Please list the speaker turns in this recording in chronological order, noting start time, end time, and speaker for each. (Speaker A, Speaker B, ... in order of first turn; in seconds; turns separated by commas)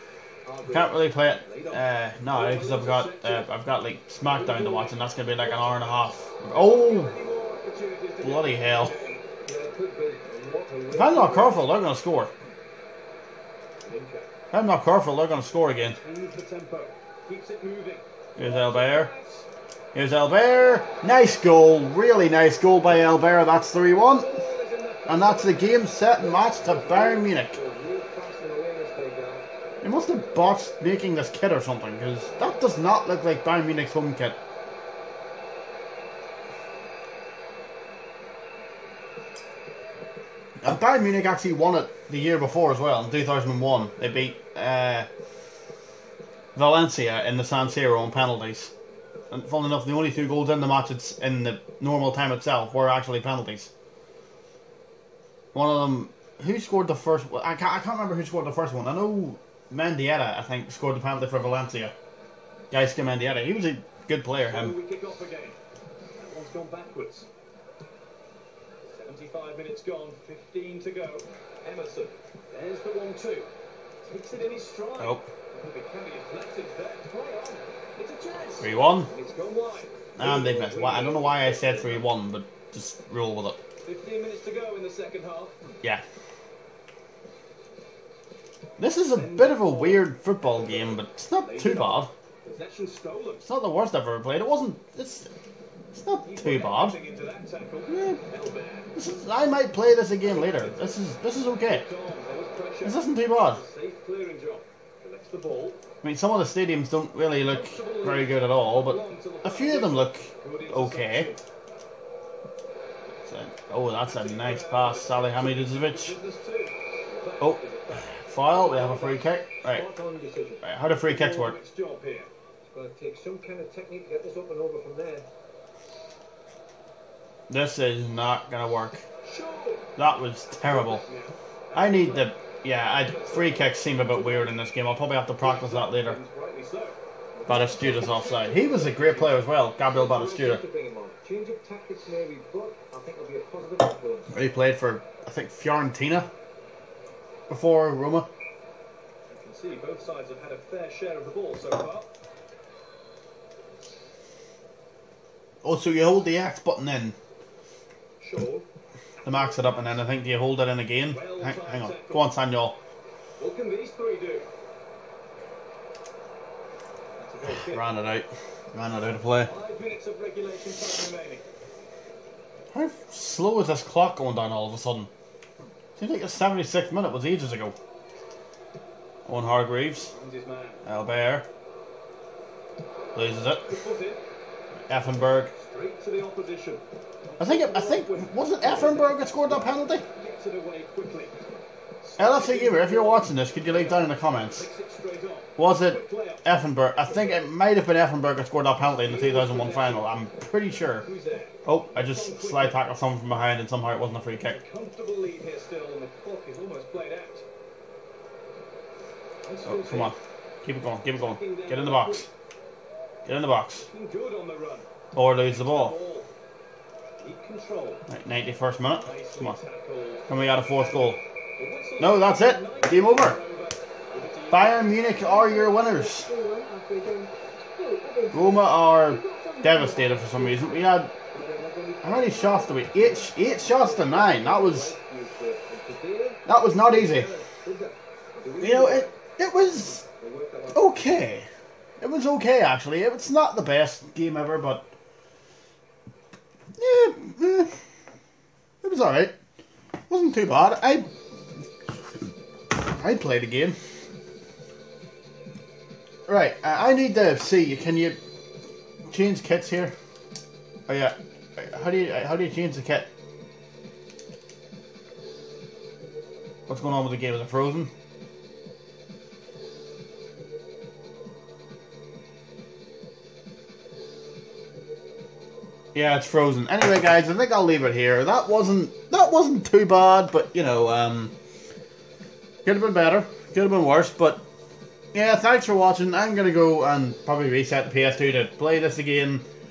Speaker A: 0.4-1.0, Speaker B: 0.7-7.1, Speaker C: 1.4-3.5, Speaker C: 4.3-9.2, Speaker B: 8.2-8.9, Speaker A: 9.4-11.7, Speaker B: 10.9-12.3, Speaker C: 13.8-14.3, Speaker B: 14.5-16.0, Speaker C: 16.0-19.5, Speaker B: 18.4-19.1, Speaker B: 19.9-24.4, Speaker C: 23.9-25.8, Speaker B: 25.1-27.6, Speaker A: 26.2-29.5, Speaker B: 29.8-34.4, Speaker B: 40.6-45.1, Speaker B: 46.5-48.7, Speaker B: 49.3-53.7, Speaker B: 55.5-61.9, Speaker B: 62.7-64.8, Speaker C: 64.4-65.6, Speaker C: 66.2-67.3, Speaker C: 68.9-73.5, Speaker C: 74.0-82.1, Speaker B: 75.0-75.2, Speaker B: 78.6-79.1, Speaker B: 80.2-83.6, Speaker C: 83.8-85.5, Speaker B: 88.8-92.1, Speaker C: 89.1-93.4, Speaker B: 93.4-95.3, Speaker B: 95.9-97.0, Speaker C: 96.2-99.0, Speaker B: 97.9-98.2, Speaker B: 98.9-101.8, Speaker C: 100.2-105.8, Speaker B: 102.8-103.6, Speaker B: 106.0-111.3, Speaker C: 107.5-111.4, Speaker B: 113.2-116.2, Speaker C: 114.0-119.2, Speaker A: 117.1-117.4, Speaker B: 117.4-119.8, Speaker A: 119.6-120.6, Speaker B: 120.6-121.6, Speaker C: 120.9-122.3, Speaker A: 122.6-125.3, Speaker B: 127.5-129.0, Speaker C: 129.2-129.9, Speaker B: 130.0-131.0, Speaker C: 130.5-134.7, Speaker B: 131.7-136.2, Speaker C: 135.4-137.0, Speaker A: 137.3-138.3, Speaker B: 137.5-140.6, Speaker C: 137.8-139.4, Speaker A: 139.9-144.4, Speaker B: 144.3-146.3, Speaker B: 147.5-148.3, Speaker C: 149.3-152.1, Speaker B: 155.6-157.2, Speaker C: 158.2-158.7, Speaker C: 159.2-160.2, Speaker B: 159.2-162.8, Speaker C: 161.1-162.3, Speaker C: 163.4-164.5, Speaker C: 167.2-167.9, Speaker B: 167.4-169.5, Speaker C: 169.4-171.4, Speaker B: 172.7-175.1, Speaker B: 176.0-177.7, Speaker B: 179.2-180.1, Speaker C: 180.1-180.8, Speaker B: 180.8-181.4, Speaker B: 183.1-183.7, Speaker C: 183.7-184.2, Speaker B: 184.9-185.5, Speaker C: 185.1-191.5, Speaker B: 187.4-190.0, Speaker C: 192.0-196.5, Speaker B: 192.2-194.7, Speaker B: 195.6-201.1, Speaker C: 197.0-197.4, Speaker C: 198.8-200.1, Speaker C: 201.0-202.8, Speaker B: 201.6-204.6, Speaker C: 204.5-207.4, Speaker C: 209.4-210.1, Speaker B: 209.6-212.3, Speaker C: 211.1-212.3, Speaker B: 213.2-213.9, Speaker C: 213.8-214.9, Speaker B: 215.1-215.9, Speaker C: 215.4-216.3, Speaker C: 217.2-218.0, Speaker B: 218.1-219.6, Speaker C: 218.9-224.9, Speaker B: 220.3-221.2, Speaker B: 222.0-223.4, Speaker B: 224.5-226.3, Speaker D: 225.0-230.9, Speaker B: 228.3-231.1, Speaker A: 231.3-239.2, Speaker B: 232.0-235.0, Speaker B: 236.4-237.3, Speaker B: 238.6-240.0, Speaker A: 240.0-241.0, Speaker B: 240.7-241.5, Speaker B: 242.0-244.8, Speaker B: 246.8-247.8, Speaker B: 248.8-249.3, Speaker B: 250.1-251.1, Speaker B: 252.7-253.8, Speaker B: 256.3-258.2, Speaker B: 259.1-259.9, Speaker B: 260.9-263.1, Speaker B: 266.7-267.9, Speaker B: 275.9-281.3, Speaker B: 282.6-284.4, Speaker B: 285.1-289.4